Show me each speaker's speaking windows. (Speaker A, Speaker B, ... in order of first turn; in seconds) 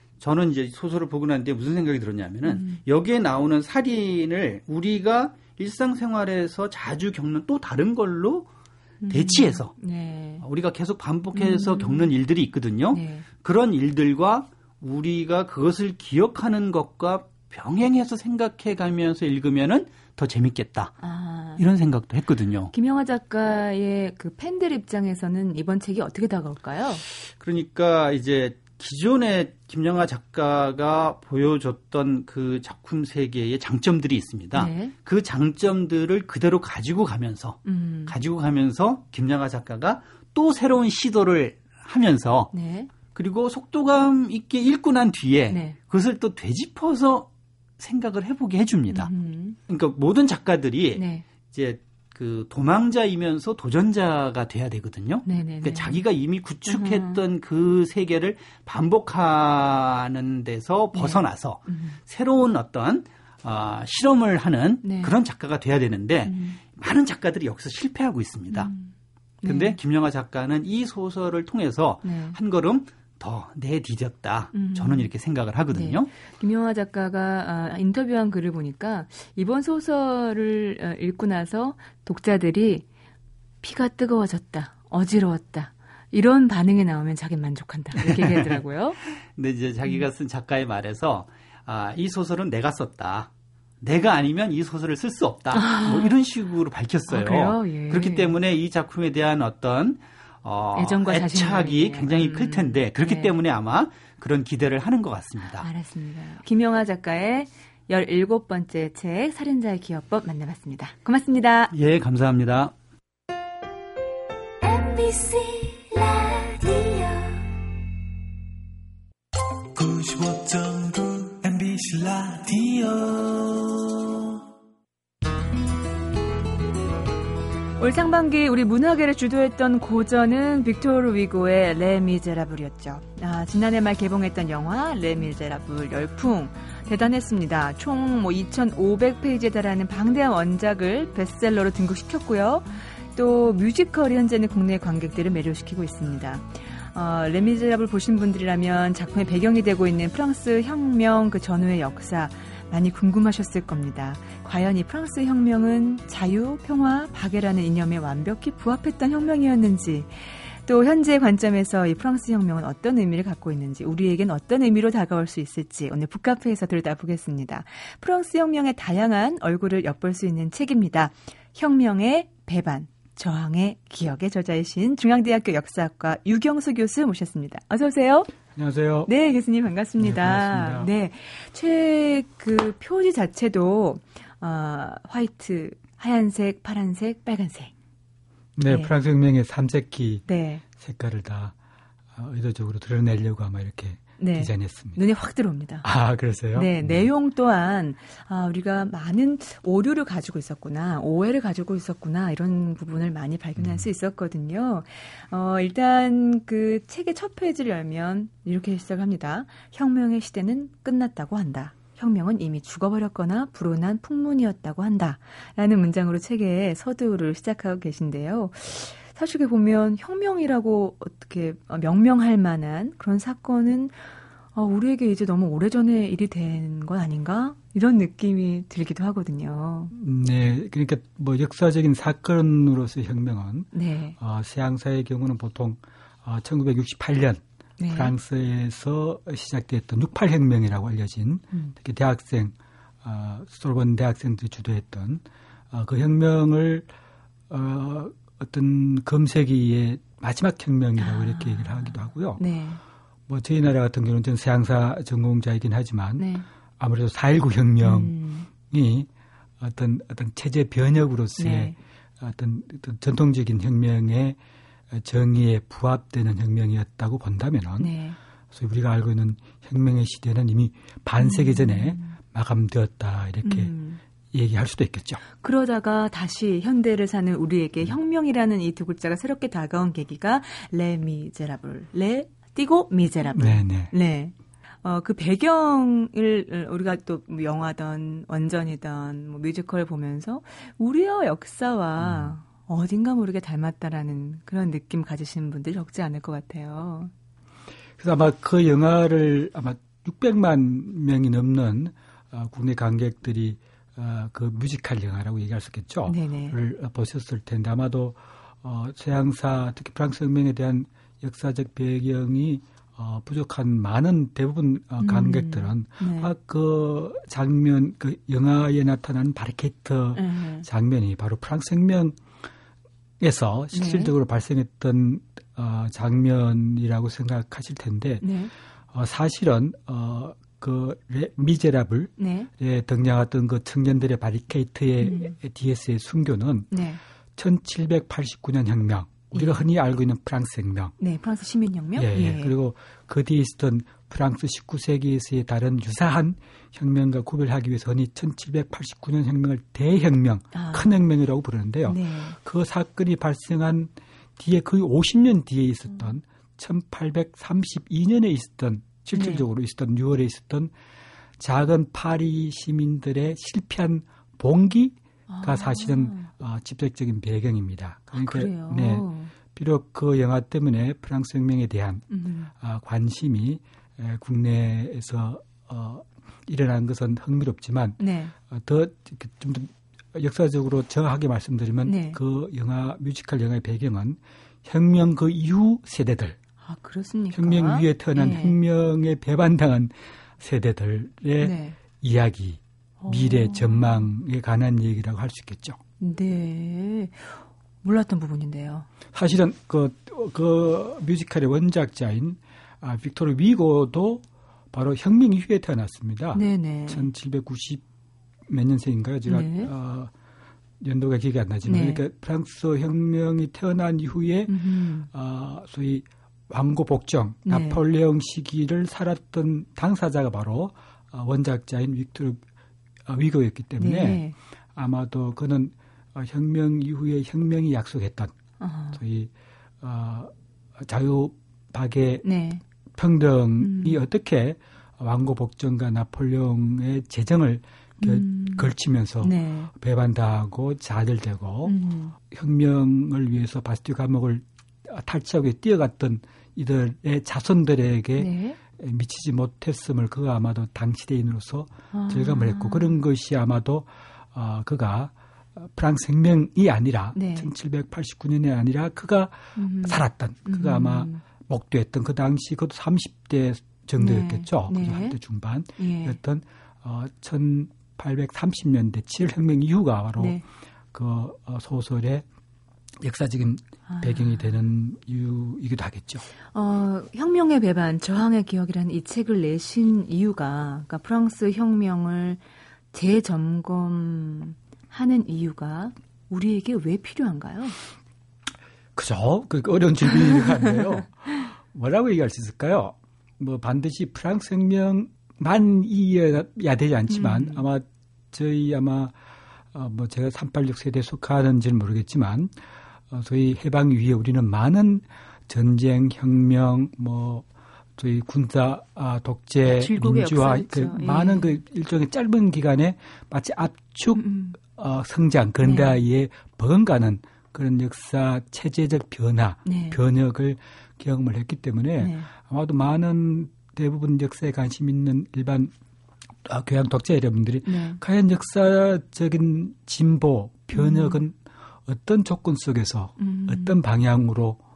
Speaker A: 0.2-8.5, 9.1-9.7, 10.4-21.0, 21.6-22.7, 27.1-42.5, 43.1-49.1, 49.7-68.7, 69.5-76.1, 88.0-88.6, 89.3-105.7, 111.7-112.7, 119.8-123.7
Speaker B: 2.5-2.8, 9.0-10.4, 11.3-12.1, 12.9-13.2, 21.0-21.6, 22.7-27.0, 34.5-34.9, 37.6-38.1, 42.5-42.9, 45.5-45.8, 48.9-49.6, 50.9-51.2, 55.2-56.0, 56.7-57.2, 60.9-62.0, 64.8-65.1, 66.2-66.6, 68.5-68.9, 69.4-69.8, 72.0-72.4, 74.5-75.1, 75.7-82.8, 83.6-89.0, 95.5-96.1, 97.1-98.3, 100.7-103.3, 105.6-111.7, 114.6-117.4, 127.8-178.3, 179.1-187.7, 188.7-188.9, 190.3-190.6, 194.2-195.9, 196.5-224.0, 224.5-229.9, 233.7-234.2, 237.8-238.2, 251.0-252.8, 256.2-256.4, 257.8-258.5, 261.4-261.8, 267.8-268.2, 271.2-272.2, 273.4-274.0, 275.4-297.1, 306.1-306.6, 315.0-316.3, 320.1-320.6, 323.7-324.1, 328.2-328.5, 332.2-332.5, 335.0-335.4, 336.7-337.0, 339.3-339.6, 341.0-342.5, 350.5-351.0, 351.9-352.4, 359.1-359.4, 365.3-366.3, 368.1-369.3, 372.1-372.5, 378.0-378.3, 381.8-382.2, 386.6-388.6, 391.4-391.8, 393.0-394.1, 396.0-398.9, 406.3-407.1, 409.3-409.7, 411.6-412.0, 414.5-415.1, 417.4-417.8, 423.8-424.3, 428.6-429.0, 432.2-432.6, 433.6-434.0, 438.0-439.7, 441.6-442.1, 448.2-448.6, 451.9-453.0, 457.1-457.5, 459.5-461.2, 464.0-465.2, 465.8-466.2, 470.2-470.4, 473.9-474.5, 476.5-482.4, 482.9-487.8, 497.1-497.6, 509.6-511.6, 514.1-514.6, 515.6-516.0, 519.6-520.0, 522.0-522.3, 527.6-528.0, 530.7-531.2, 533.2-533.8
Speaker C: 178.5-179.1, 180.0-180.9, 188.6-191.5, 192.1-195.0, 195.8-197.1, 203.6-203.9, 229.9-246.9, 247.5-252.4, 253.3-256.2, 256.8-259.1, 259.6-264.4, 264.9-267.9, 268.5-273.7, 274.3-275.2, 283.3-283.9, 292.0-292.4, 298.0-322.2, 323.2-328.2, 328.9-336.8, 337.4-340.9, 342.0-360.7, 361.4-386.4, 387.3-395.8, 399.1-407.8, 408.5-410.1, 410.8-422.4, 423.1-424.2, 424.7-428.3, 428.9-432.2, 433.0-441.7, 442.3-470.4, 470.9-472.2, 473.0-476.2, 488.9-499.1, 499.7-502.5, 503.1-507.4, 508.0-525.7, 526.4-534.6